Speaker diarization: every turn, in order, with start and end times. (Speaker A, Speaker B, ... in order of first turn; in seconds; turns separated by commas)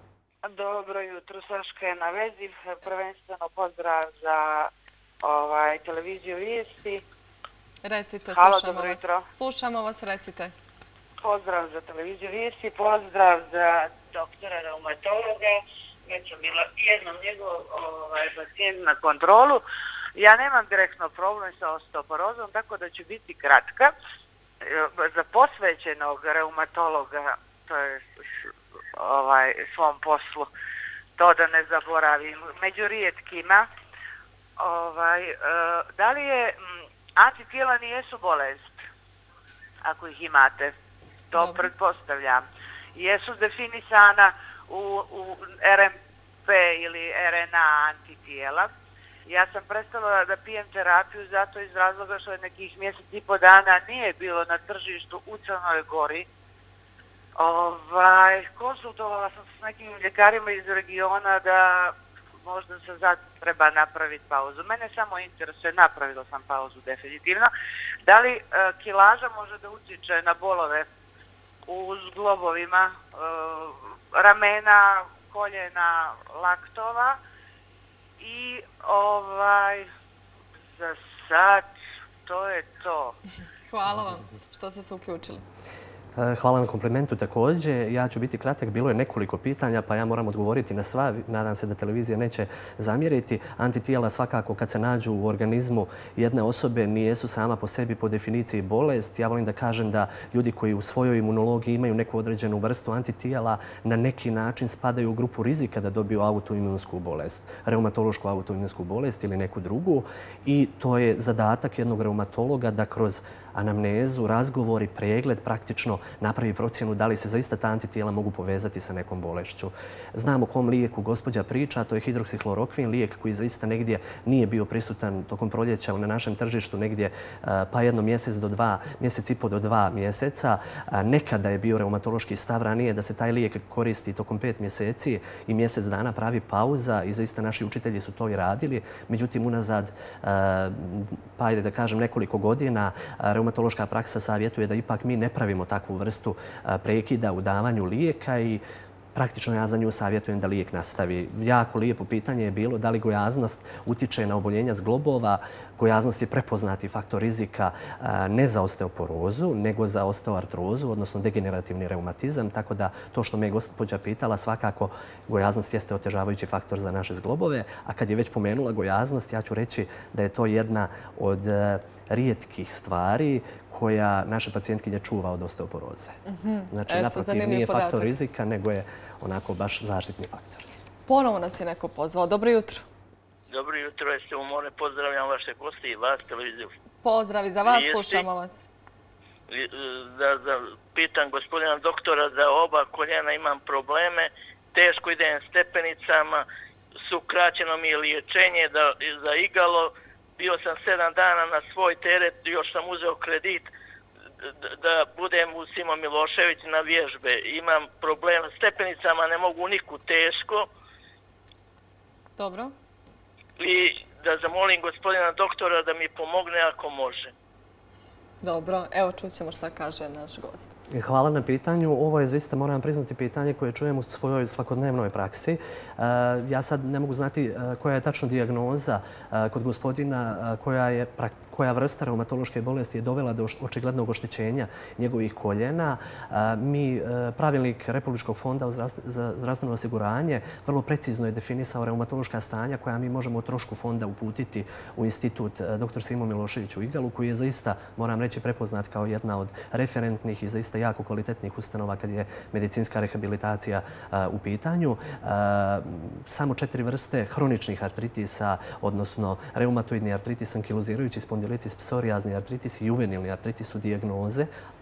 Speaker A: 0.4-4.7, Speaker A: 5.2-7.0, Speaker B: 7.8-10.5, Speaker A: 8.3-9.2, Speaker A: 11.2-19.6, Speaker A: 20.1-23.9, Speaker A: 24.6-28.3, Speaker A: 28.9-30.5, Speaker A: 31.2-33.7, Speaker A: 34.6-38.8, Speaker A: 39.8-40.7, Speaker A: 41.3-42.4, Speaker B: 41.4-41.7, Speaker A: 43.0-45.9, Speaker A: 46.5-48.7, Speaker A: 49.3-56.3, Speaker A: 57.4-67.5, Speaker A: 68.0-70.9, Speaker A: 71.7-77.2, Speaker A: 78.2-79.9, Speaker A: 80.8-81.7, Speaker A: 82.2-83.2, Speaker B: 83.7-85.4, Speaker C: 86.2-148.6, Speaker C: 149.1-176.2, Speaker B: 176.2-178.1, Speaker C: 176.7-180.7, Speaker B: 181.1-182.8, Speaker D: 183.5-186.7, Speaker B: 187.0-188.7, Speaker D: 187.7-188.2, Speaker D: 189.5-196.4, Speaker D: 197.0-203.7, Speaker D: 204.4-210.7, Speaker B: 212.4-212.7, Speaker D: 213.6-217.3, Speaker B: 218.4-220.7, Speaker C: 220.9-264.5